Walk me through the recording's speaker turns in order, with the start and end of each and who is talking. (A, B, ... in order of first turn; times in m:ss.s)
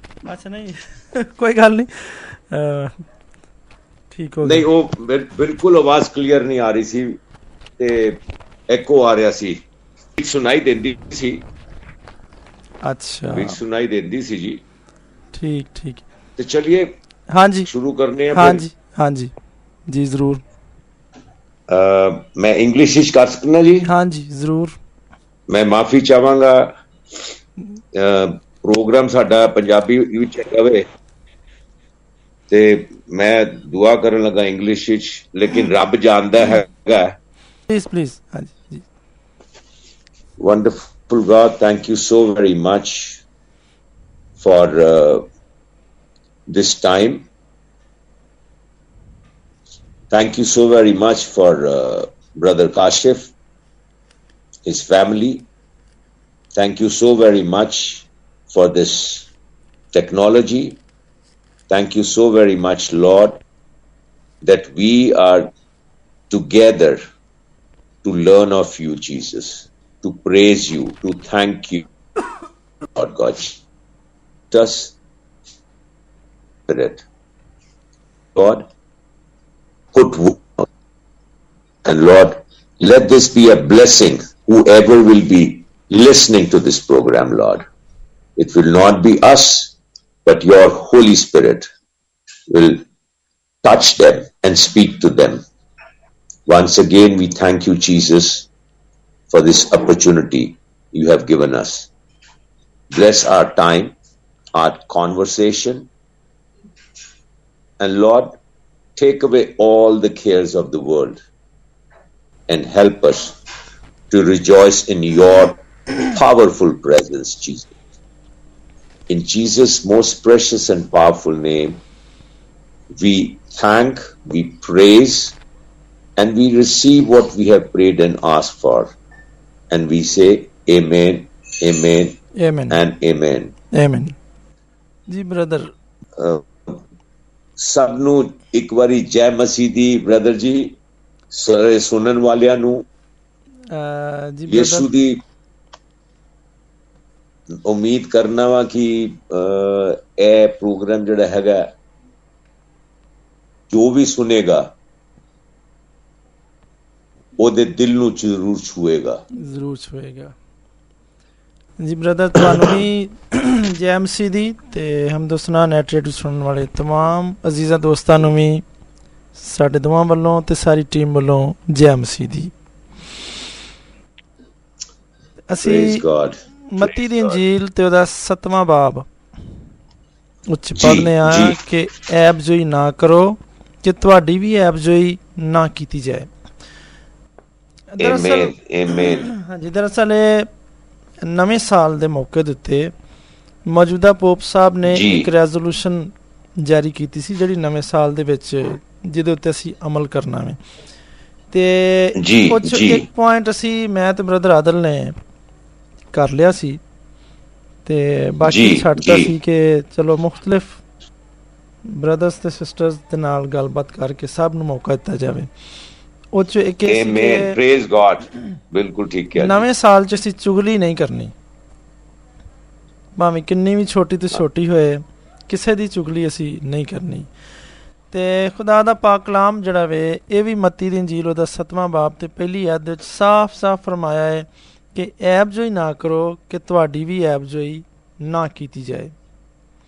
0:00.2-0:02.9 A
0:04.1-0:04.6 A
0:04.4-0:07.2 B
0:07.8-0:09.6 B
0:10.2-0:11.4 B
0:12.8-0:13.6 A
0:13.3-0:14.6 B
0:15.3-0:16.0 A
0:16.4-0:16.9 B
0:17.3-0:17.7 A
0:17.7-0:18.6 B
0:18.3-0:19.3 A
0:19.9-0:20.4 A
0:21.7-0:23.9 B
0:23.8-0:24.8 A
0:25.5-0:26.7 B
0:27.9-0:30.9 B
0:32.5-0:37.2 B
0:37.7-0:38.8 A
0:40.4-0:43.2 B
0:44.4-0:45.2 B
0:46.5-0:47.3 B
0:50.1-0:53.3 B
0:54.6-0:55.5 B
0:56.6-0:59.3 B
0:59.9-1:00.8 B
1:01.7-1:03.4 B
1:04.4-1:05.5 B
1:06.3-1:07.0 B
1:08.0-1:11.8 B
1:13.0-1:13.6 B
1:14.5-1:14.9 B
1:16.7-1:17.0 B
1:18.3-1:18.7 B
1:19.9-1:20.6 B
1:21.8-1:27.6 B
1:28.4-1:31.6 B
1:32.5-1:32.8 B
1:33.6-1:35.4 B
1:36.5-1:38.5 B
1:39.3-1:41.9 B
1:42.9-1:43.9 B
1:44.5-1:45.9 B
1:47.8-1:48.3 B
1:49.0-1:51.2 B
1:52.5-1:53.4 B
1:54.1-1:57.7 B
1:59.1-2:01.8 B
2:02.9-2:05.4 B
2:06.2-2:08.9 B
2:09.7-2:12.2 B
2:12.4-2:12.8 A
2:12.7-2:13.5 B
2:13.7-2:14.1 A
2:15.1-2:15.7 A
2:16.2-2:16.8 B
2:17.6-2:20.8 B
2:21.3-2:22.8 B
2:23.7-2:24.9 A
2:24.5-2:25.2 B
2:27.5-2:31.7 B
2:33.7-2:34.7 B
2:37.4-2:39.2 B
2:39.4-2:40.4 A
2:41.8-2:48.6 A
2:42.4-2:42.7 B
2:49.3-2:52.5 A
2:55.5-2:56.0 A
2:55.6-2:57.4 B
2:56.7-2:59.1 A
3:00.5-3:06.3 A
3:00.8-3:01.6 B
3:07.9-3:10.5 A
3:08.0-3:09.3 B
3:11.2-3:12.9 A
3:13.7-3:20.6 A
3:14.9-3:15.3 B
3:21.5-3:25.2 A
3:22.2-3:23.0 B
3:26.1-3:26.8 A
3:27.8-3:30.8 A
3:28.4-3:29.3 B
3:31.8-3:35.5 A
3:36.3-3:37.6 A
3:36.8-3:39.6 B
3:39.3-3:41.3 A
3:43.2-3:47.3 A
3:48.1-3:59.1 A